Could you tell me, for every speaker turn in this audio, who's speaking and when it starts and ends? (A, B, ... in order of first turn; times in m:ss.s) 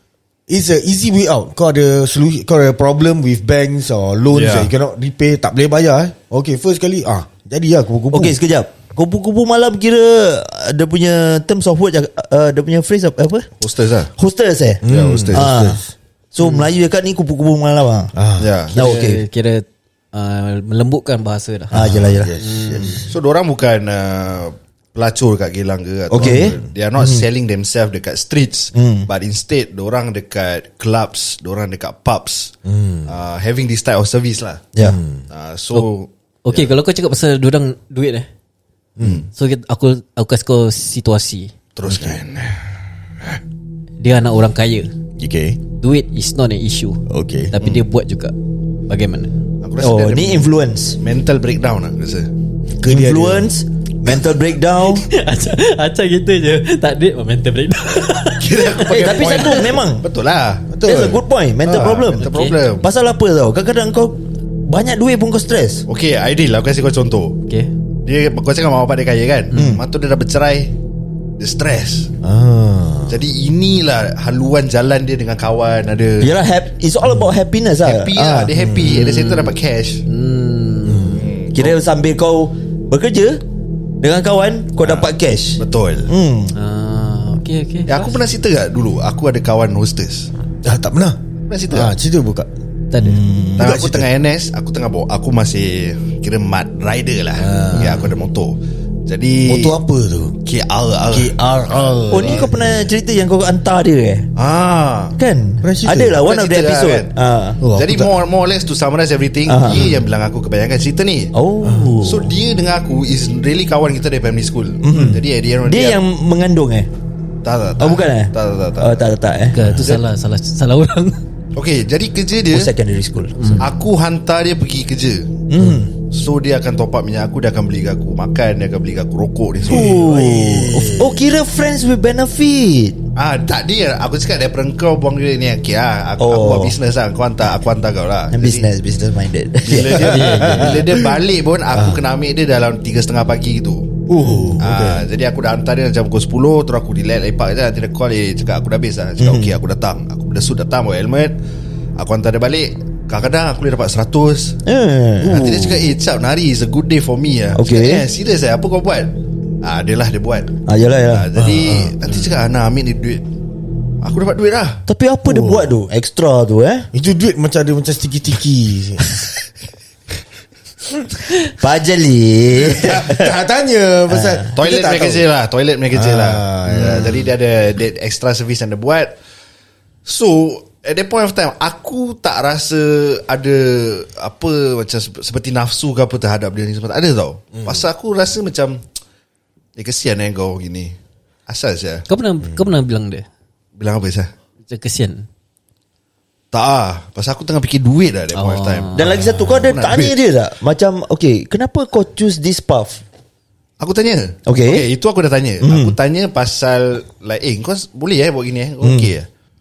0:00.5-0:08.4 A
0:04.3-0:04.7 B
0:08.1-0:13.5 C
0:13.6-0:14.1 B
0:14.2-0:15.8 C
0:14.8-0:15.9 A
0:14.9-0:15.5 B
0:16.3-0:18.1 C
0:16.4-0:16.7 D
0:18.1-0:18.6 A
0:18.4-0:18.8 B
0:18.7-0:23.1 D
0:18.7-0:19.2 C
0:21.7-0:23.1 A
0:21.7-0:22.3 C
0:23.1-0:32.5 B
0:26.1-0:27.2 C
0:26.2-0:26.6 A
0:28.7-0:29.1 C
0:32.6-0:33.1 A
0:33.0-0:34.7 B
0:34.8-0:35.2 A
0:35.3-0:36.7 B
0:36.4-0:38.3 D
0:39.0-0:39.2 A
0:39.0-0:39.3 B
0:39.3-0:41.5 D
0:41.8-0:42.6 B
0:41.8-0:42.2 A
0:44.0-0:44.9 D
0:45.2-0:45.6 A
0:45.8-0:48.3 D
0:47.1-0:47.5 A
0:48.9-0:49.3 D
0:49.6-0:52.3 B
0:49.8-0:51.0 C
0:52.8-0:53.5 A
0:52.8-0:55.0 C
0:54.8-0:59.7 D
0:58.4-1:00.7 B
0:58.9-1:00.0 C
1:00.7-1:01.2 A
1:00.8-1:05.8 C
1:01.6-1:02.8 B
1:02.2-1:02.6 D
1:05.9-1:07.4 B
1:08.0-1:10.7 B
1:09.5-1:09.8 C
1:11.4-1:12.1 B
1:12.2-1:13.2 A
1:13.1-1:16.3 B
1:16.2-1:18.5 C
1:17.8-1:20.0 B
1:18.5-1:19.0 A
1:18.8-1:19.5 D
1:20.1-1:21.2 D
1:20.8-1:21.2 A
1:21.1-1:21.8 B
1:21.5-1:23.4 C
1:24.0-1:26.5 C
1:24.8-1:26.1 B
1:26.5-1:28.2 D
1:27.9-1:30.3 B
1:30.6-1:32.5 A
1:31.5-1:31.9 B
1:32.9-1:33.2 D
1:33.0-1:33.7 C
1:33.6-1:34.1 A
1:33.6-1:39.8 B
1:37.4-1:38.1 A
1:39.4-1:40.4 A
1:40.4-1:41.3 B
1:41.1-1:42.8 A
1:42.1-1:44.3 C
1:44.4-1:45.2 B
1:45.2-1:47.6 C
1:45.6-1:46.2 A
1:46.2-1:47.1 B
1:47.6-1:48.1 A
1:47.7-1:51.3 B
1:49.5-1:49.9 C
1:51.3-1:52.3 C
1:51.6-1:52.0 A
1:52.0-1:56.0 B
1:54.8-1:56.9 C
1:57.4-1:59.1 B
1:57.8-1:59.6 C
1:59.5-2:01.2 D
2:01.5-2:02.7 B
2:02.5-2:03.5 C
2:03.4-2:03.7 D
2:03.6-2:05.3 B
2:05.5-2:05.9 C
2:05.6-2:05.9 A
2:06.1-2:10.3 B
2:09.7-2:13.0 C
2:09.7-2:11.3 A
2:13.2-2:18.7 B
2:16.2-2:16.7 C
2:18.3-2:20.7 C
2:19.6-2:24.0 B
2:19.9-2:21.0 A
2:21.7-2:22.0 A
2:24.1-2:25.1 A
2:24.3-2:24.5 C
2:24.6-2:31.3 B
2:29.2-2:29.6 C
2:32.0-2:34.6 B
2:34.6-2:35.9 C
2:35.2-2:43.2 B
2:37.5-2:38.0 C
2:40.7-2:41.3 C
2:41.4-2:42.0 A
2:44.0-2:44.8 B
2:44.9-2:46.9 C
2:45.2-2:45.8 A
2:46.9-2:49.2 A
2:51.3-2:53.3 C
2:52.5-2:55.2 A
2:54.1-2:54.5 C
2:54.6-2:59.2 B
2:55.9-2:57.3 A
3:00.0-3:08.8 B
3:09.8-3:10.9 B
3:11.5-3:12.0 B
3:12.1-3:13.2 D
3:13.8-3:14.3 B
3:14.7-3:15.2 D
3:16.5-3:20.2 B
3:18.3-3:19.2 D
3:18.9-3:23.0 C
3:19.2-3:19.7 A
3:23.8-3:29.3 B
3:24.5-3:24.9 C
3:25.6-3:26.0 C
3:28.8-3:29.1 C